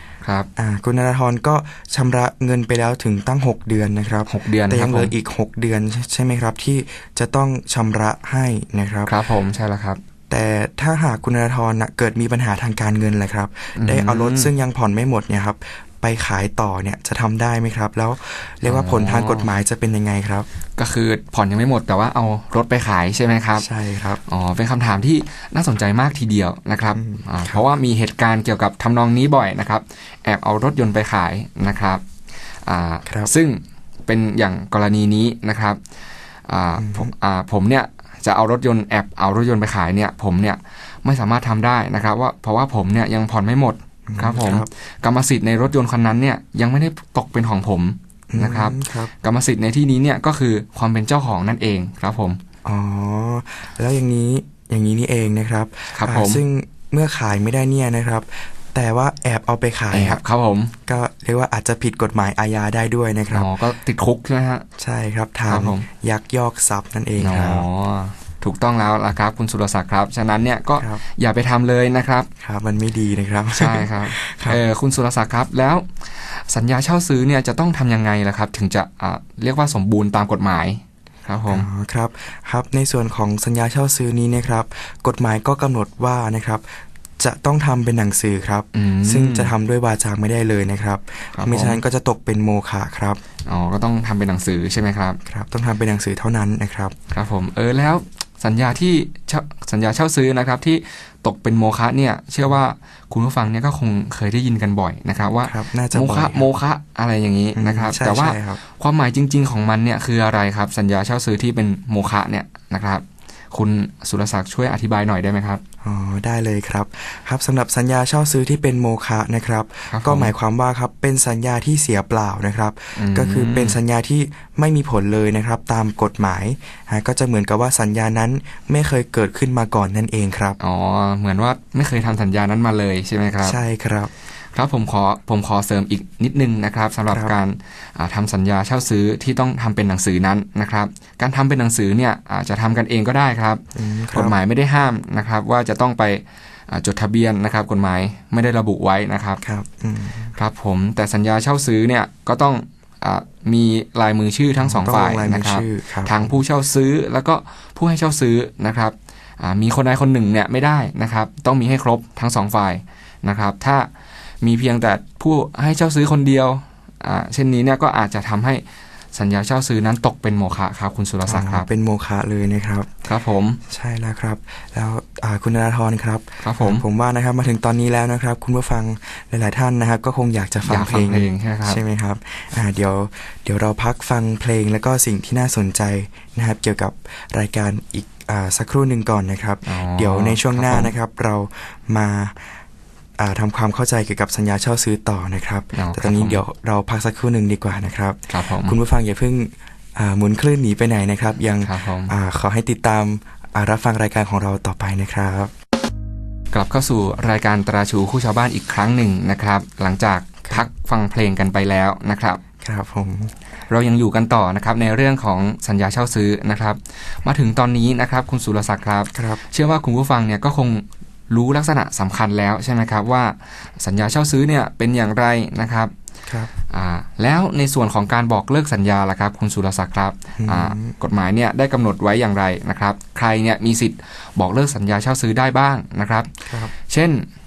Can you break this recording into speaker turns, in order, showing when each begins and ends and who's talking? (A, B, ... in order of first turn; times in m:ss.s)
0:00.2-0:00.5 A
0:00.6-0:09.2 B
0:04.3-0:05.2 A
0:09.1-0:10.0 A
0:10.3-0:20.5 B
0:13.8-0:14.5 A
0:18.6-0:19.5 A
0:20.8-0:23.7 A
0:23.6-0:24.2 B
0:24.2-0:32.0 A
0:26.9-0:27.6 B
0:32.6-0:35.8 A
0:33.1-0:33.3 B
0:36.5-0:52.4 A
0:36.8-0:37.1 B
0:44.1-0:44.7 B
0:48.3-0:49.1 B
0:52.6-1:00.2 B
0:55.9-0:56.4 A
0:59.9-1:00.7 A
1:00.9-1:03.5 B
1:03.3-1:04.7 A
1:04.8-1:07.7 B
1:05.5-1:05.9 A
1:07.2-1:12.3 A
1:10.8-1:11.0 B
1:12.4-1:14.6 B
1:13.5-1:21.7 A
1:21.5-1:33.2 B
1:28.7-1:29.5 A
1:31.4-1:31.8 A
1:33.5-1:35.2 A
1:35.3-1:37.0 B
1:37.1-1:55.6 A
1:45.4-1:46.5 B
1:47.6-1:48.6 B
1:55.8-2:10.6 B
1:59.9-2:00.3 A
2:03.0-2:03.8 A
2:10.6-2:13.6 A
2:13.4-2:14.1 B
2:14.5-2:29.4 A
2:17.1-2:17.4 B
2:23.8-2:24.4 B
2:29.4-2:30.4 B
2:30.4-2:43.9 A
2:34.6-2:36.4 B
2:44.4-2:51.7 A
2:51.2-2:52.9 B
2:53.0-2:53.6 A
2:53.7-3:12.6 B
2:56.4-2:56.8 A
3:00.6-3:01.8 A
3:09.6-3:11.0 A
3:13.2-3:25.5 B
3:15.7-3:16.4 A
3:18.3-3:18.8 A
3:21.6-3:22.1 A
3:26.5-3:32.4 A
3:32.6-3:33.3 B
3:33.7-3:45.9 A
3:39.1-3:39.4 B
3:46.7-3:57.3 A
3:50.4-3:51.0 B